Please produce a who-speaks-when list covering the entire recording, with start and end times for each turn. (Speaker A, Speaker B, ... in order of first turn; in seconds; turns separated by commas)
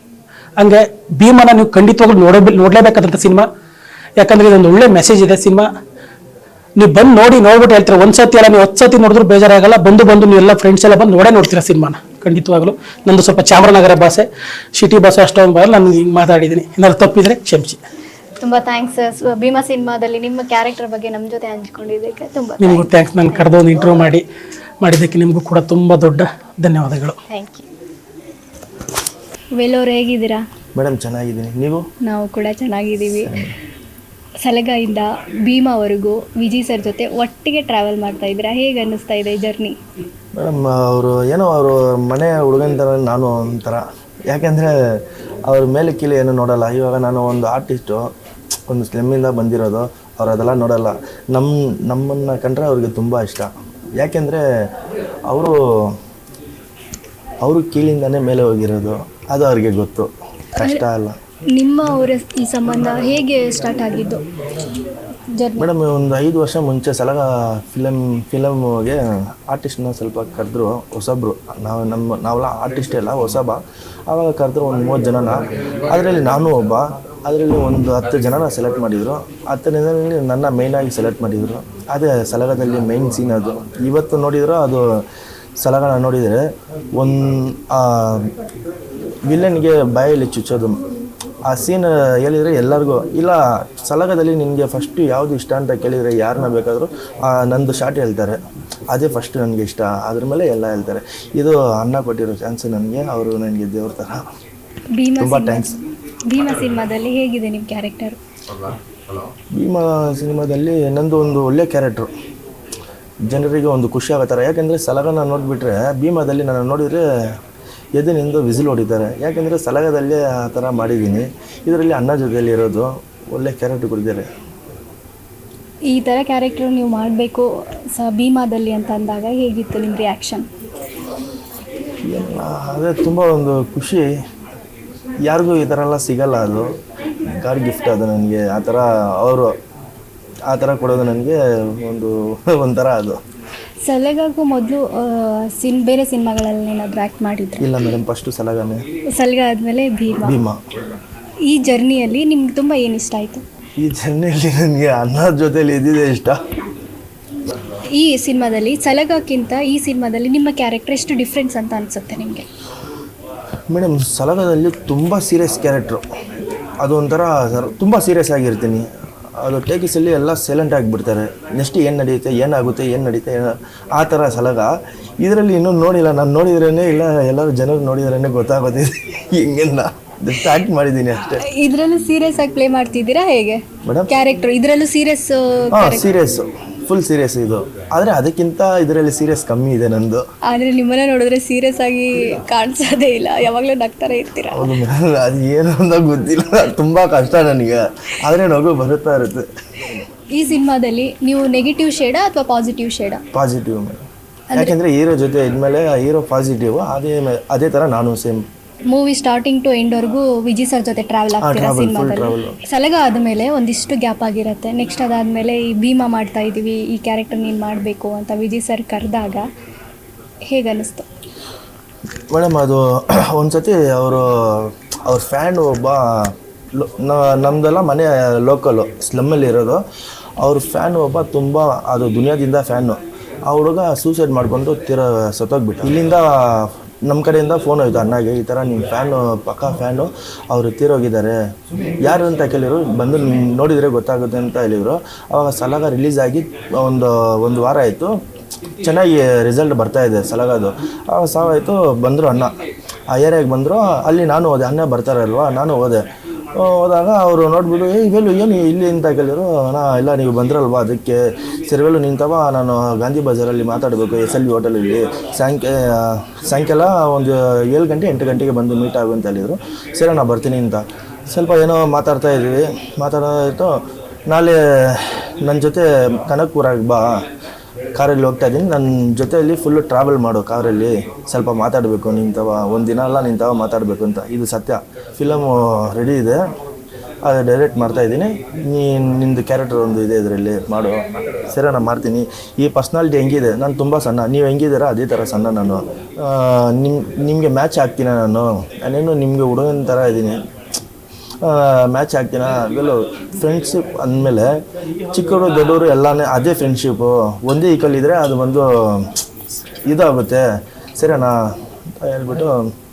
Speaker A: 0.6-3.5, Speaker A: 4.2-5.7, Speaker A: 6.8-17.8, Speaker B: 18.4-22.9, Speaker A: 22.6-24.2, Speaker A: 24.8-27.2, Speaker B: 27.3-27.6, Speaker B: 29.6-30.4, Speaker C: 30.8-31.8, Speaker B: 32.0-33.3, Speaker C: 33.2-33.5, Speaker B: 34.4-39.8, Speaker C: 40.4-48.1, Speaker C: 48.7-54.4, Speaker C: 55.3-56.0, Speaker C: 57.4-61.2, Speaker B: 60.6-60.8, Speaker B: 61.5-64.2, Speaker B: 65.3-65.7, Speaker C: 65.6-84.8, Speaker C: 85.6-86.4, Speaker C: 87.0-88.3, Speaker C: 89.3-90.8, Speaker C: 91.5-98.4, Speaker C: 98.9-104.3, Speaker B: 105.0-105.8, Speaker C: 105.2-105.7, Speaker B: 106.3-108.2, Speaker C: 109.5-112.1, Speaker C: 113.3-117.0, Speaker C: 118.0-124.3, Speaker B: 125.9-130.4, Speaker C: 132.0-134.1, Speaker C: 135.2-136.7, Speaker C: 137.3-139.5, Speaker C: 140.5-143.2, Speaker B: 143.8-147.7, Speaker C: 147.6-148.8, Speaker B: 149.1-150.4, Speaker C: 150.2-150.6, Speaker B: 151.5-153.4, Speaker C: 153.8-156.4, Speaker B: 157.9-162.5, Speaker C: 163.7-166.0, Speaker C: 166.8-168.8, Speaker C: 169.4-181.4, Speaker B: 181.4-186.1, Speaker C: 185.7-190.2, Speaker B: 190.5-194.7, Speaker C: 194.5-200.0, Speaker B: 200.3-203.2, Speaker C: 203.3-204.0, Speaker C: 204.5-208.4, Speaker B: 208.9-219.4, Speaker C: 211.4-212.6, Speaker B: 220.5-221.1, Speaker C: 222.3-229.8, Speaker C: 230.4-241.3, Speaker C: 242.0-248.1, Speaker C: 248.8-252.5, Speaker C: 253.1-277.2, Speaker C: 277.9-286.4, Speaker C: 287.2-300.4, Speaker C: 301.4-304.5, Speaker C: 305.1-309.2, Speaker C: 309.9-310.4, Speaker C: 311.0-311.3, Speaker C: 312.0-312.6